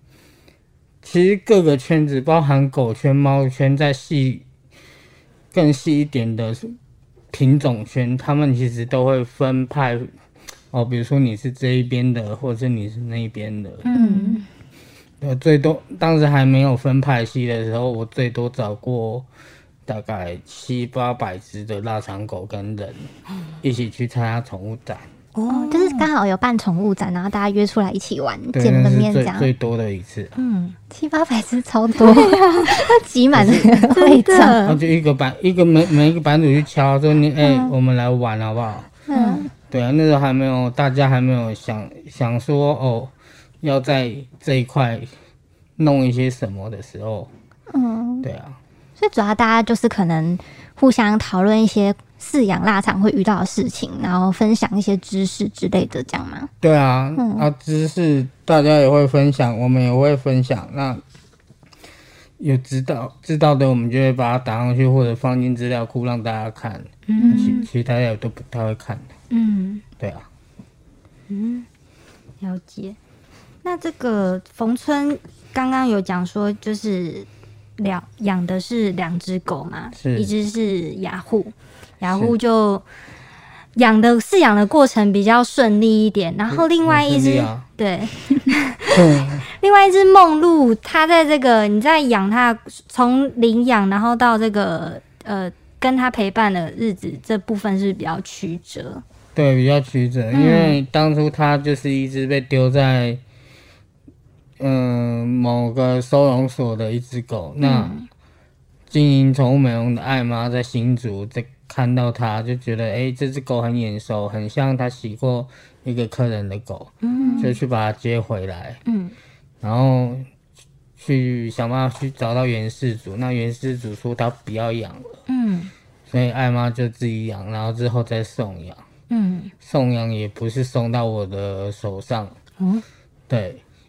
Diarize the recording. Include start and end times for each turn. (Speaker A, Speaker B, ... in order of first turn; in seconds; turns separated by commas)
Speaker A: 1.0-4.5, Speaker A: 5.5-6.8, Speaker A: 7.3-10.1, Speaker A: 10.7-13.8, Speaker B: 13.8-14.4, Speaker C: 13.9-14.4, Speaker A: 15.2-19.3, Speaker A: 19.9-23.1, Speaker A: 23.6-25.1, Speaker B: 25.4-26.1, Speaker C: 25.5-29.5, Speaker A: 28.5-30.3, Speaker B: 30.4-30.8, Speaker C: 30.9-34.8, Speaker B: 32.0-32.9, Speaker A: 33.3-33.7, Speaker B: 33.9-34.6, Speaker A: 34.6-39.0, Speaker C: 37.4-37.7, Speaker C: 39.1-39.5, Speaker B: 39.1-39.5, Speaker A: 39.7-45.1, Speaker A: 45.8-47.3, Speaker C: 47.7-48.3, Speaker A: 48.2-48.6, Speaker C: 49.0-56.5, Speaker A: 56.6-61.0, Speaker C: 57.2-57.5, Speaker A: 62.4-69.1, Speaker B: 67.1-67.7, Speaker C: 67.2-67.6, Speaker B: 69.3-69.8, Speaker A: 70.0-70.3, Speaker B: 71.3-71.7, Speaker B: 72.4-73.0, Speaker B: 73.6-82.8, Speaker A: 80.0-80.3, Speaker B: 83.8-99.0, Speaker A: 86.5-87.7, Speaker A: 88.9-89.5, Speaker A: 99.3-103.2, Speaker B: 100.3-100.8, Speaker A: 104.6-107.9, Speaker B: 107.6-108.1, Speaker A: 108.9-118.8, Speaker B: 117.0-117.5, Speaker C: 117.2-117.5, Speaker B: 118.9-119.1, Speaker A: 119.6-120.3, Speaker A: 121.0-125.2, Speaker B: 125.3-125.7, Speaker A: 126.1-128.8, Speaker B: 129.1-129.5, Speaker A: 129.6-132.3, Speaker A: 133.3-133.6